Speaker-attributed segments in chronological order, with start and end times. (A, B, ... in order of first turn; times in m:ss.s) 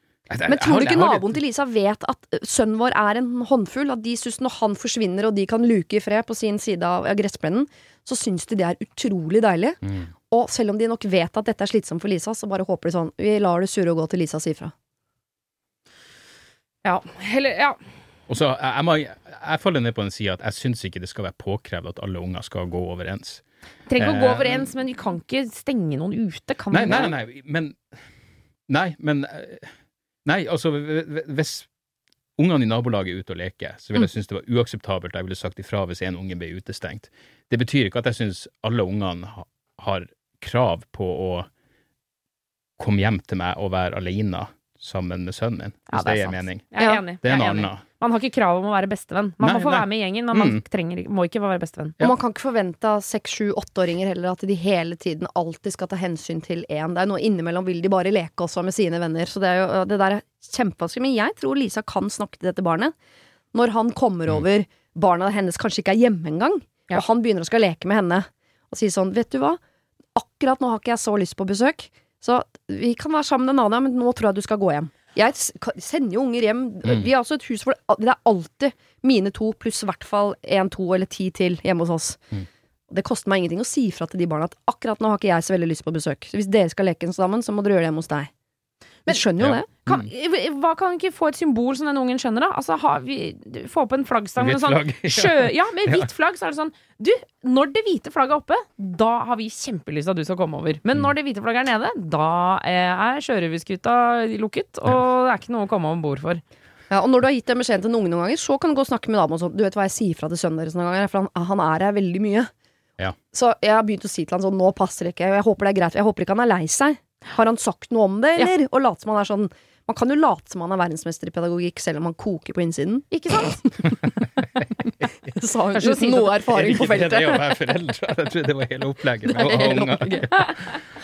0:00.3-0:01.4 A
0:00.5-0:09.8 B
0:09.8-0:10.1 A
0:10.3-0:14.7 B
0:16.8-0:17.8 C
0:18.3-0:23.4 A
0:23.9-0:27.1 C
0:24.0-0:24.7 A
0:26.7-0:27.9 A
0:28.7-0:29.7 A
0:30.2-0:31.7 A
0:32.4-0:41.5 A
0:42.8-0:47.8 A
0:45.9-0:52.0 C
0:49.4-0:50.6 A
0:52.0-1:02.9 B
1:03.5-1:09.6 B
1:10.1-1:22.3 B
1:22.9-1:28.3 B
1:29.1-1:29.7 B
1:29.4-1:30.1 A
1:29.8-1:46.4 C
1:34.4-1:36.1 A
1:46.9-1:52.5 B
1:53.3-2:03.1 B
2:03.1-2:03.6 C
2:05.3-2:07.5 B
2:05.8-2:06.3 C
2:06.5-2:10.3 A
2:09.2-2:10.4 B
2:10.3-2:10.6 C